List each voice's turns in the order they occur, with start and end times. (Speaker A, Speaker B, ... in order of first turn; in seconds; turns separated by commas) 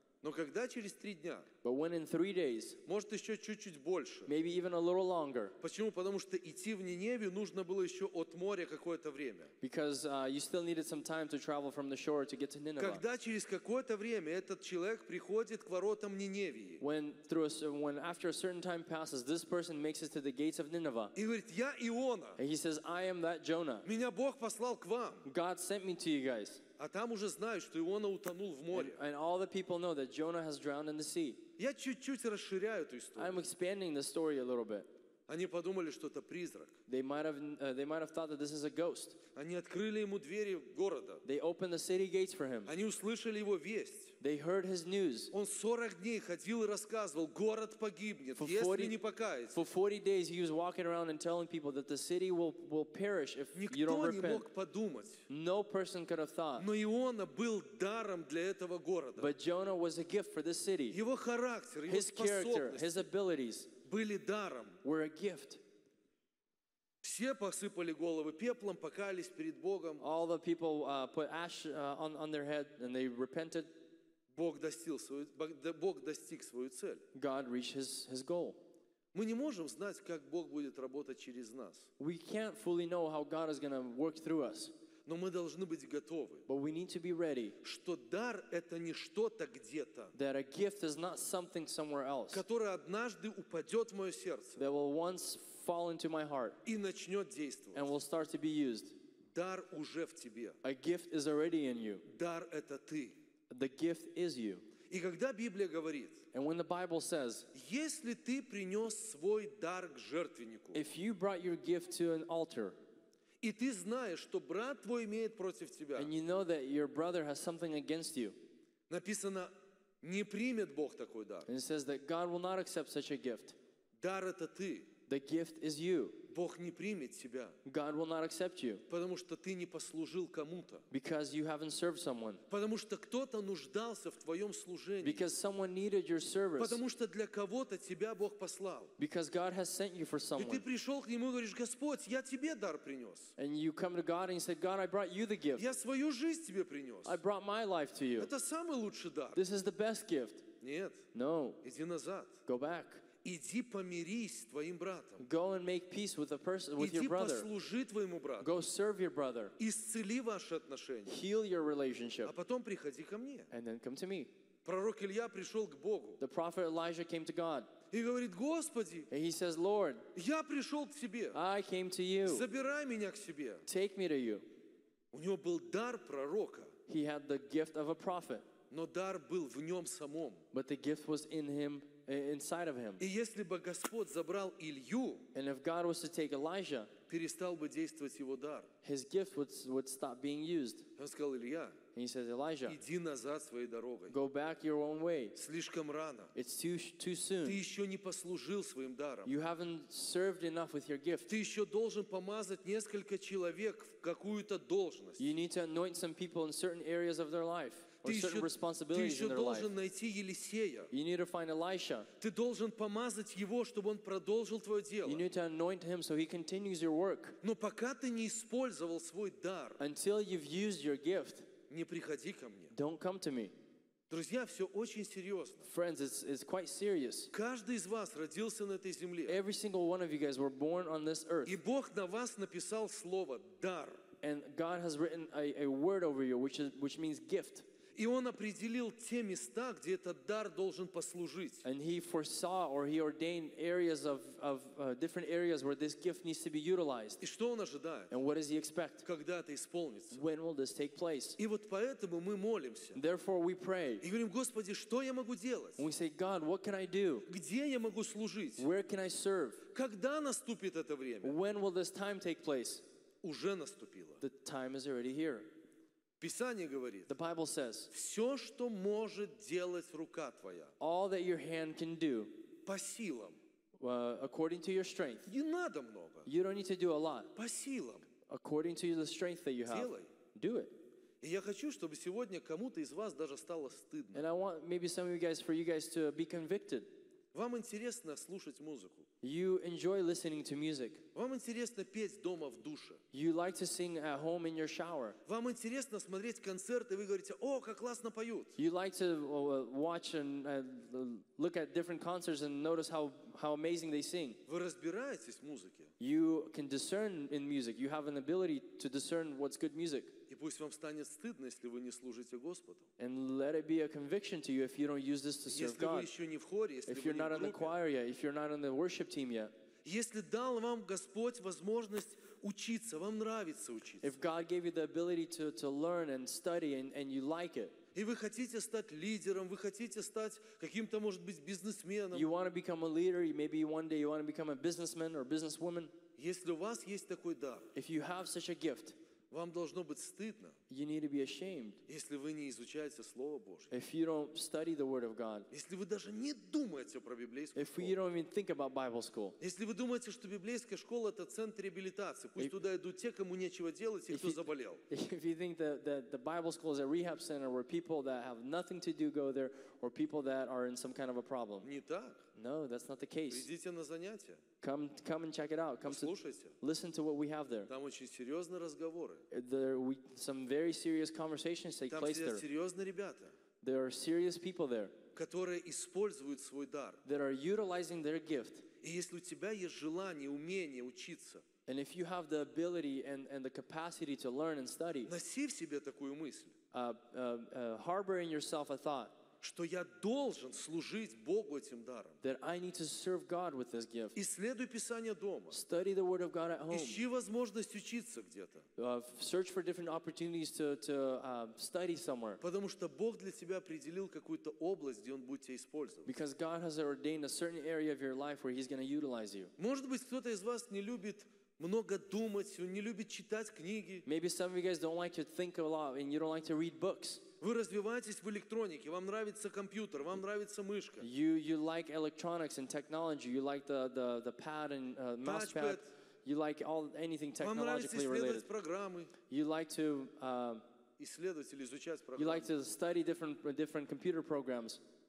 Speaker A: 0.2-1.5, Speaker B: 1.6-2.8, Speaker A: 2.9-4.3, Speaker B: 4.3-5.5, Speaker A: 5.6-9.5, Speaker B: 9.6-13.0, Speaker A: 12.8-16.8, Speaker B: 16.8-21.1, Speaker A: 21.1-22.4, Speaker B: 22.4-23.9, Speaker A: 23.8-25.3, Speaker B: 25.2-26.6, Speaker A: 26.8-29.0, Speaker B: 28.7-31.5, Speaker A: 31.6-33.4, Speaker B: 33.2-34.9, Speaker A: 35.3-36.8, Speaker B: 36.9-39.2, Speaker A: 39.3-41.2, Speaker B: 41.2-42.7, Speaker A: 42.7-44.1, Speaker B: 44.2-45.3, Speaker A: 45.3-49.6, Speaker B: 48.4-49.0, Speaker B: 49.5-54.5, Speaker A: 53.5-55.2, Speaker B: 55.3-56.7, Speaker A: 56.6-59.3, Speaker B: 59.2-61.0, Speaker A: 60.9-63.0, Speaker B: 61.9-63.7, Speaker A: 63.8-64.8, Speaker B: 64.8-65.6, Speaker A: 67.0-70.0, Speaker B: 70.0-73.7, Speaker A: 74.3-77.0, Speaker B: 77.1-78.6, Speaker A: 79.1-81.9, Speaker B: 82.0-84.7, Speaker A: 85.0-86.4, Speaker B: 86.5-87.5, Speaker A: 87.6-90.1, Speaker B: 90.1-92.4, Speaker A: 92.3-94.6, Speaker B: 94.6-96.6, Speaker A: 96.6-97.9, Speaker B: 97.7-98.9, Speaker A: 99.3-100.6, Speaker B: 100.6-102.0, Speaker A: 102.0-103.2, Speaker B: 103.5-104.6, Speaker A: 104.9-106.2, Speaker B: 106.3-107.5, Speaker A: 107.5-110.8, Speaker B: 110.7-112.7, Speaker A: 113.4-116.1, Speaker B: 116.0-118.3, Speaker A: 118.9-121.5, Speaker B: 121.5-123.5, Speaker A: 124.0-124.9, Speaker B: 125.1-126.2, Speaker A: 126.3-127.5, Speaker B: 127.6-128.8, Speaker A: 128.9-130.8, Speaker B: 130.9-132.4, Speaker A: 132.5-135.2, Speaker B: 135.0-136.8, Speaker A: 136.6-138.9, Speaker B: 139.0-140.6, Speaker A: 140.4-143.3, Speaker B: 143.4-145.7, Speaker A: 145.5-147.2, Speaker B: 147.0-148.3, Speaker A: 148.2-149.4, Speaker B: 149.3-150.5, Speaker A: 150.6-151.1, Speaker B: 151.1-151.6, Speaker A: 151.6-152.4, Speaker B: 152.4-153.1, Speaker A: 153.2-155.2, Speaker B: 155.2-157.5, Speaker A: 156.8-158.5, Speaker B: 158.4-159.6, Speaker A: 159.6-161.2, Speaker B: 161.1-162.3, Speaker A: 162.2-163.5, Speaker B: 163.5-164.3, Speaker A: 164.6-166.2, Speaker B: 166.2-167.7, Speaker A: 167.9-169.1, Speaker B: 169.1-170.1, Speaker A: 170.1-171.4, Speaker B: 171.3-172.4, Speaker A: 172.2-173.6, Speaker B: 173.7-174.4, Speaker A: 175.1-176.7, Speaker B: 176.9-178.4, Speaker A: 178.7-180.4, Speaker B: 180.5-183.0, Speaker A: 183.0-185.3, Speaker B: 185.3-186.9, Speaker A: 187.1-188.7, Speaker B: 188.8-190.9, Speaker A: 191.0-191.8, Speaker B: 191.9-192.8, Speaker A: 192.7-194.2, Speaker B: 194.1-195.4, Speaker A: 195.3-196.3, Speaker B: 196.3-197.6, Speaker A: 197.4-199.3, Speaker B: 199.2-201.3, Speaker A: 201.3-205.3, Speaker B: 205.2-209.7, Speaker A: 208.0-210.9, Speaker B: 210.9-212.1, Speaker A: 212.2-215.2, Speaker B: 215.0-217.4, Speaker A: 217.4-219.8, Speaker B: 219.8-221.5, Speaker A: 221.7-222.7, Speaker B: 222.7-223.5, Speaker A: 224.1-225.7, Speaker B: 225.6-227.3, Speaker A: 227.3-229.4, Speaker B: 229.3-231.5, Speaker A: 231.4-234.0, Speaker B: 234.2-237.7, Speaker A: 237.9-241.6, Speaker B: 241.6-247.2, Speaker A: 247.2-248.1, Speaker B: 248.1-249.1, Speaker A: 249.0-250.2, Speaker B: 250.1-251.4, Speaker A: 251.4-253.0, Speaker B: 252.9-254.0, Speaker A: 254.0-255.8, Speaker B: 255.8-257.3, Speaker A: 257.3-258.7, Speaker B: 258.6-259.6, Speaker A: 259.7-261.4, Speaker B: 261.2-262.8, Speaker A: 263.2-264.2, Speaker B: 264.2-265.5, Speaker A: 266.2-267.1, Speaker B: 267.1-267.9, Speaker A: 267.9-270.7, Speaker B: 270.8-272.5, Speaker A: 272.6-273.4, Speaker B: 273.8-275.3, Speaker A: 275.2-276.3, Speaker B: 276.2-277.3, Speaker A: 277.4-278.1, Speaker B: 278.3-280.8, Speaker A: 279.7-280.1, Speaker A: 281.2-284.2, Speaker B: 284.1-286.9, Speaker A: 287.3-289.1, Speaker B: 289.2-291.0, Speaker A: 291.1-293.0, Speaker B: 293.1-295.2, Speaker A: 295.2-298.6, Speaker B: 298.6-304.4, Speaker A: 304.5-305.9, Speaker B: 306.0-310.2, Speaker A: 310.3-312.9, Speaker B: 313.0-316.1, Speaker A: 315.5-317.7, Speaker B: 316.9-319.5, Speaker A: 319.8-324.1, Speaker B: 324.0-327.7, Speaker A: 327.9-332.3, Speaker B: 332.1-335.9, Speaker A: 336.2-337.7, Speaker B: 337.7-338.9, Speaker A: 339.3-340.6, Speaker B: 340.7-341.8, Speaker A: 341.9-343.7, Speaker B: 343.7-345.5, Speaker A: 345.5-348.0, Speaker B: 347.5-349.4, Speaker A: 349.4-354.8, Speaker B: 354.1-361.7, Speaker A: 361.6-362.2, Speaker B: 362.3-363.5, Speaker A: 363.3-364.4, Speaker B: 364.6-367.7, Speaker A: 365.9-366.6, Speaker A: 367.7-369.2, Speaker B: 369.3-372.4, Speaker A: 371.9-373.3, Speaker B: 373.6-374.9, Speaker A: 375.1-377.0, Speaker B: 377.0-378.7, Speaker A: 378.8-381.4, Speaker B: 381.7-385.1, Speaker A: 385.1-386.5, Speaker B: 386.7-389.1, Speaker A: 389.4-392.2, Speaker B: 392.2-394.2, Speaker A: 394.1-395.6, Speaker B: 395.5-397.0, Speaker A: 396.7-398.6, Speaker B: 398.8-402.4, Speaker A: 402.4-406.1, Speaker B: 406.0-409.5, Speaker A: 409.6-414.0, Speaker B: 414.0-417.2, Speaker A: 417.4-421.1, Speaker B: 421.0-428.5, Speaker A: 425.2-425.9, Speaker A: 427.4-429.1, Speaker B: 429.2-430.6, Speaker A: 431.0-432.5, Speaker B: 432.1-434.8